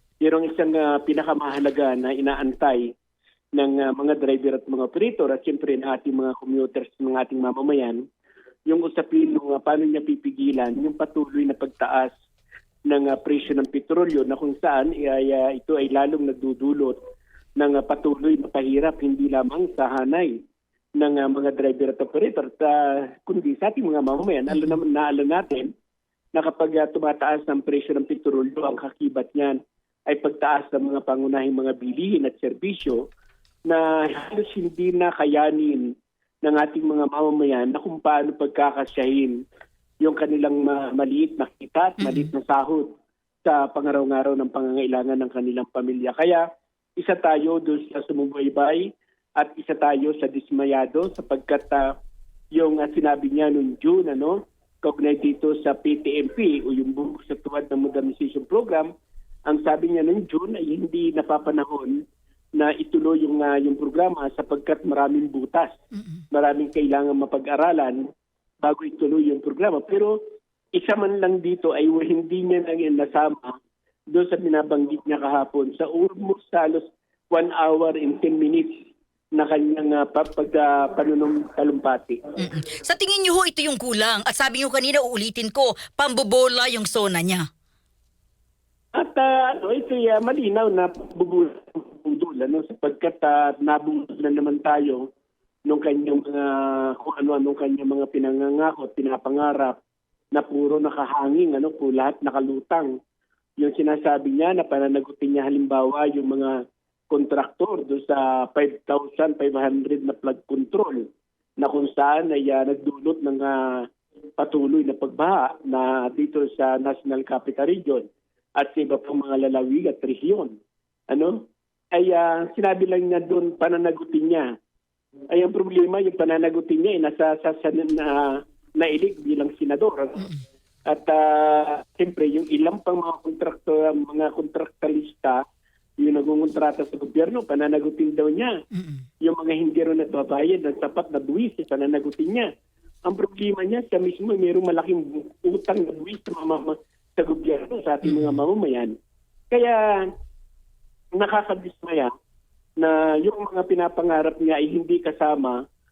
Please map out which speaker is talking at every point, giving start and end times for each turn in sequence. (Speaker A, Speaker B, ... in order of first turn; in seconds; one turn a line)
Speaker A: 0.2-2.9
Speaker A: 3.5-8.0
Speaker A: 8.7-12.1
Speaker A: 12.9-17.0
Speaker A: 17.6-20.4
Speaker A: 21.0-25.7
Speaker B: 24.5-24.8
Speaker A: 26.3-33.0
Speaker A: 33.7-35.8
Speaker A: 36.4-39.4
Speaker A: 40.0-42.9
Speaker B: 42.0-42.3
Speaker A: 43.4-46.4
Speaker A: 47.0-51.9
Speaker A: 52.5-58.9
Speaker A: 59.5-62.0
Speaker A: 62.6-65.8
Speaker A: 66.3-68.1
Speaker A: 68.6-70.2
Speaker A: 70.7-73.6
Speaker A: 74.1-82.2
Speaker B: 82.4-87.5
Speaker A: 88.9-95.0
Speaker A: 95.7-99.8
Speaker A: 100.3-102.9
Speaker A: 103.6-106.6
Speaker A: 107.1-113.8
Speaker A: 114.4-120.6
Speaker A: 121.1-124.5
Speaker A: 125.3-130.3
Speaker A: 130.9-135.4
Speaker A: 136.0-138.5
Speaker B: 138.7-139.0
Speaker A: 139.2-142.5
Speaker A: 143.1-148.9
Speaker B: 148.0-148.3
Speaker A: 149.5-150.1
Speaker A: 151.2-152.1
Speaker A: 152.8-155.6